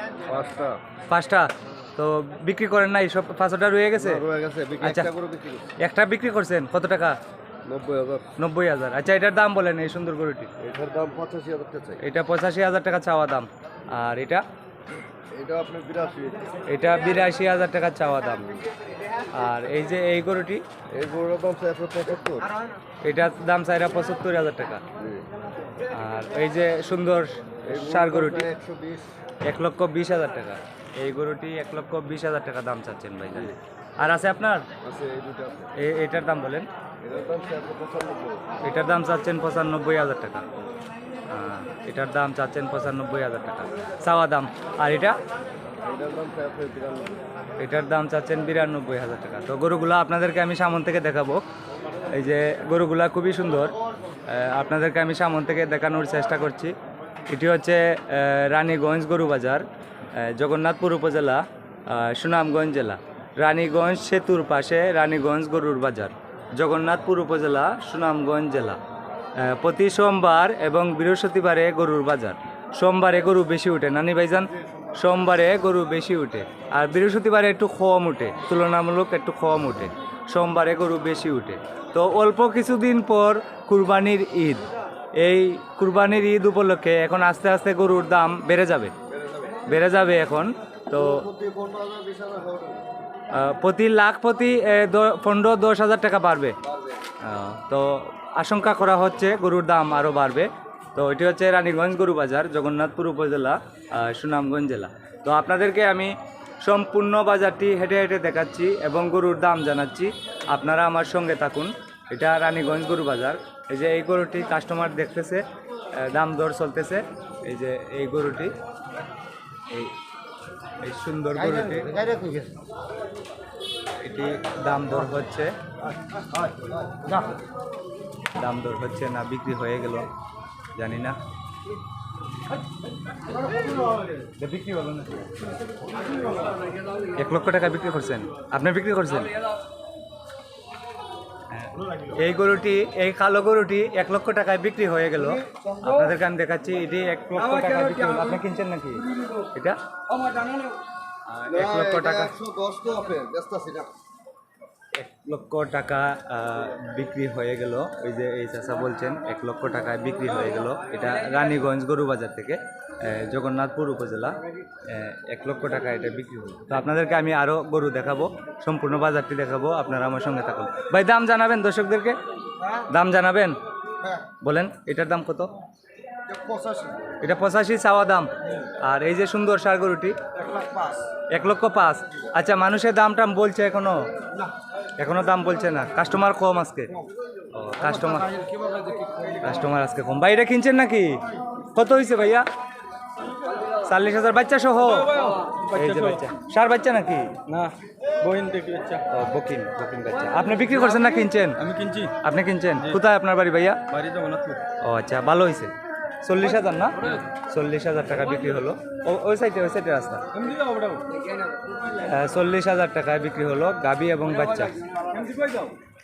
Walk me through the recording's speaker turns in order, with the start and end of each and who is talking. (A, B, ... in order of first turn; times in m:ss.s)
0:00.3-0:00.8 A
0:01.1-0:04.2 B
0:04.0-0:05.8 A
0:04.8-0:05.1 B
0:05.8-0:07.2 B
0:07.6-0:08.3 A
0:08.4-0:10.5 B
0:10.6-0:12.0 A
0:12.0-0:14.4 B
0:15.3-0:16.6 A
0:16.7-0:18.6 B
0:19.3-0:20.6 B
0:20.9-0:22.5 A
0:23.0-0:24.8 B
0:25.0-0:25.2 A
0:25.9-0:28.5 B
0:27.7-0:29.1 A
0:29.4-0:34.7 B
0:34.8-0:35.7 A
0:35.8-0:36.7 B
0:37.0-0:38.5 A
0:38.6-0:40.4 B
0:41.3-0:45.2 B
0:45.8-0:47.2 A
0:47.6-0:51.4 B
0:52.1-0:53.7 B
0:54.3-0:56.7 B
0:57.3-0:59.6 B
1:00.2-1:08.8 B
1:09.4-1:24.7 B
1:25.2-1:29.0 B
1:29.1-1:29.7 A
1:29.7-1:31.2 B
1:30.9-1:32.8 A
1:33.3-1:36.6 B
1:36.6-1:37.0 A
1:37.2-1:55.4 B
1:55.9-1:58.5 B
2:00.8-2:02.3 B
2:04.0-2:05.5 B
2:08.4-2:10.1 B
2:10.8-2:11.2 B
2:14.4-2:15.3 B
2:17.2-2:19.4 B
2:21.5-2:29.8 B
2:31.3-2:32.3 B
2:31.5-2:33.9 A
2:35.0-2:52.2 B
2:52.7-2:53.6 B
2:54.4-2:55.5 B
2:56.3-2:57.0 A
2:57.2-3:00.2 B
3:00.6-3:01.0 A
3:01.3-3:04.0 B
3:05.0-3:07.0 B
3:07.5-3:08.4 B
3:08.7-3:09.2 C
3:09.4-3:11.2 B
3:11.7-3:12.4 B
3:13.8-3:17.4 B
3:14.9-3:16.2 C
3:17.5-3:19.0 C
3:19.1-3:21.7 B
3:21.6-3:22.2 C
3:22.2-3:23.8 B
3:23.9-3:24.6 C
3:24.8-3:25.7 B
3:26.2-3:30.3 B
3:30.3-3:31.2 C
3:32.0-3:34.9 B
3:35.0-3:35.7 C